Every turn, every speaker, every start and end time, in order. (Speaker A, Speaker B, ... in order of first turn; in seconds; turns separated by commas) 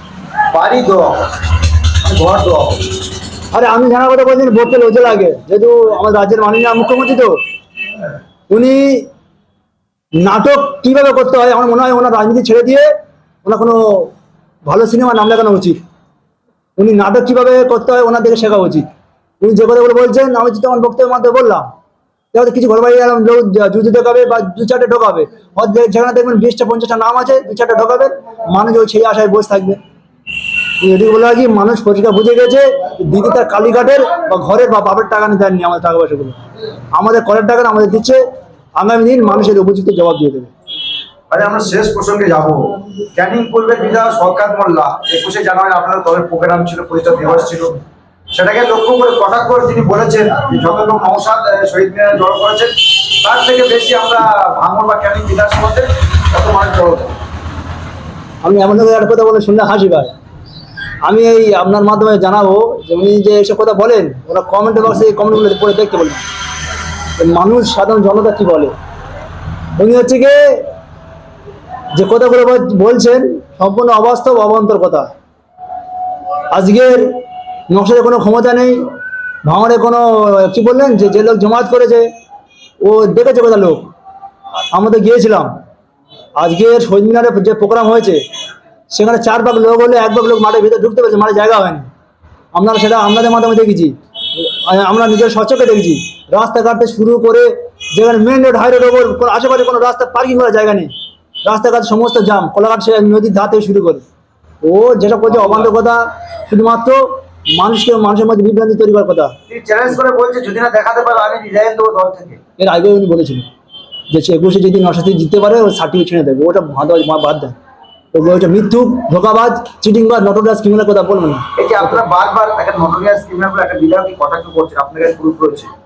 Speaker A: 0.5-1.3, Speaker A: 2.0-2.9, Speaker B: 3.5-7.4, Speaker B: 8.5-9.1, Speaker B: 10.2-12.9, Speaker B: 13.4-14.1, Speaker B: 14.7-15.8, Speaker B: 16.8-18.9, Speaker B: 19.4-21.7, Speaker B: 22.3-29.8, Speaker B: 30.8-36.4, Speaker B: 36.9-38.2, Speaker B: 38.8-40.5, Speaker A: 41.3-47.8, Speaker A: 48.3-57.1, Speaker B: 58.4-60.1, Speaker B: 61.0-66.2, Speaker B: 67.2-68.8, Speaker B: 69.8-70.7, Speaker B: 72.0-75.1, Speaker B: 76.5-78.8, Speaker B: 79.5-82.1, Speaker B: 82.8-83.9, Speaker B: 84.7-85.5, Speaker B: 86.4-88.2, Speaker B: 88.9-91.9, Speaker B: 92.5-100.9, Speaker B: 101.4-104.0, Speaker B: 104.6-109.3, Speaker A: 109.5-112.4, Speaker B: 112.6-113.5, Speaker B: 114.1-117.6, Speaker B: 118.1-121.5, Speaker A: 121.6-125.7